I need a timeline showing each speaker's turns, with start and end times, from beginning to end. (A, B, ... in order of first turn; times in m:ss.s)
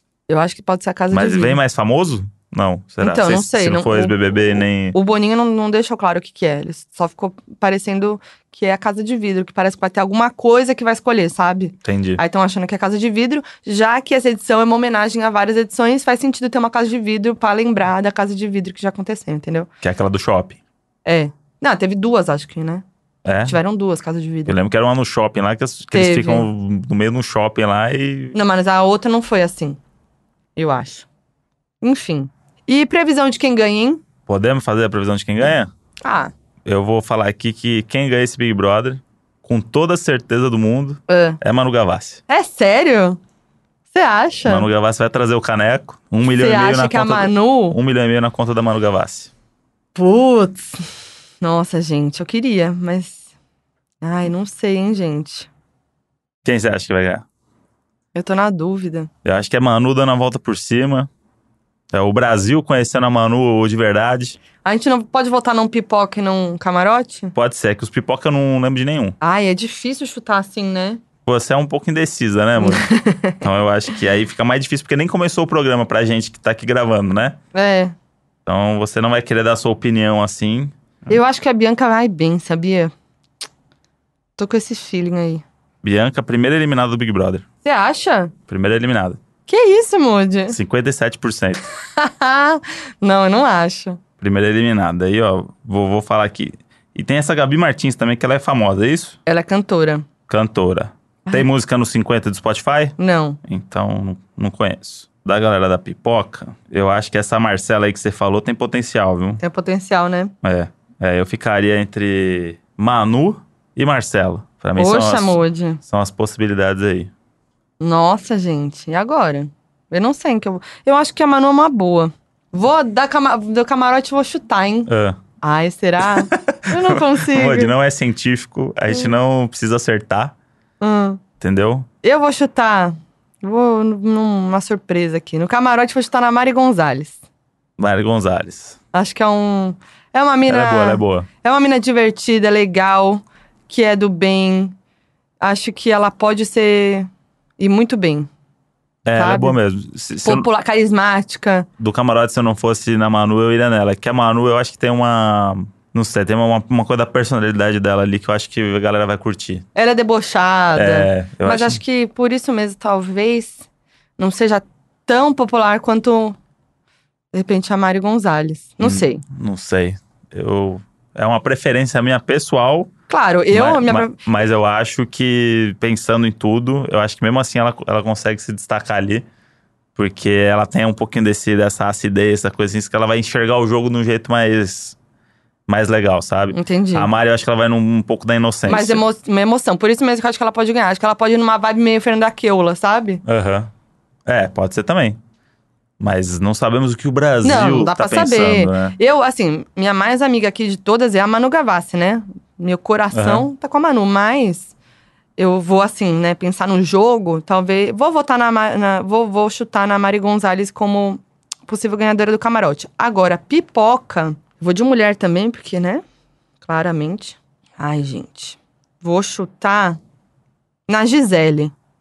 0:00.3-0:01.6 A
0:01.1-0:05.0 B
0:03.0-0:04.2 A
0:04.9-0:19.7 A
0:11.8-0:12.2 B
0:19.8-0:20.6 B
0:21.0-0:22.8 A
0:23.2-0:23.6 B
0:23.4-0:24.6 A
0:24.4-0:28.4 B
0:25.9-0:26.5 A
0:28.3-0:29.8 A
0:30.6-0:31.0 A
0:31.8-0:34.0 A
0:34.3-0:35.7 B
0:36.0-0:36.3 A
0:36.6-0:42.2 B
0:41.1-0:41.4 A
0:42.3-0:43.2 A
0:43.9-0:44.7 A
0:44.4-0:49.3 B
0:46.3-0:47.8 A
0:49.9-0:50.8 A
0:51.4-0:53.2 A
0:54.0-0:55.5 A
0:56.4-0:57.2 B
0:58.1-0:59.1 A
0:59.2-1:01.1 B
1:01.9-1:04.4 B
1:04.6-1:07.3 A
1:07.3-1:09.2 B
1:09.2-1:11.0 A
1:11.3-1:17.4 B
1:12.6-1:13.4 A
1:17.5-1:17.9 A
1:18.4-1:21.1 B
1:21.1-1:22.9 A
1:24.4-1:25.4 A
1:25.8-1:27.4 B
1:27.6-1:28.3 A
1:28.5-1:29.2 B
1:29.5-1:30.6 A
1:30.5-1:31.6 B
1:31.9-1:34.0 A
1:34.2-1:39.2 B
1:39.3-1:40.0 A
1:40.3-1:49.4 B
1:43.0-1:43.4 A
1:49.4-1:50.3 A
1:50.4-1:57.1 B
1:54.8-1:55.8 A
1:57.8-2:04.9 A
2:04.9-2:05.2 B
2:05.4-2:07.7 A
2:06.1-2:10.3 B
2:10.8-2:11.2 A
2:11.4-2:11.9 B
2:12.0-2:17.2 A
2:17.8-2:18.8 B
2:18.9-2:24.8 A
2:20.5-2:21.3 B
2:25.4-2:28.3 A
2:29.0-2:30.5 B
2:29.2-2:29.6 A
2:30.2-2:31.7 A
2:31.8-2:39.6 B
2:39.7-2:43.6 A
2:40.7-2:41.8 B
2:44.2-2:46.4 A
2:47.3-2:49.2 A
2:48.8-2:52.9 B
2:53.1-2:54.2 A
2:53.5-2:59.2 B
3:00.0-3:05.0 B
3:05.7-3:09.0 B
3:06.5-3:07.1 A
3:08.7-3:13.2 A
3:13.2-3:13.7 B
3:14.3-3:15.2 B
3:16.0-3:19.0 B
3:17.4-3:24.7 A
3:23.1-3:23.4 B
3:25.4-3:36.0 A
3:36.6-3:40.0 A
3:40.9-3:41.7 A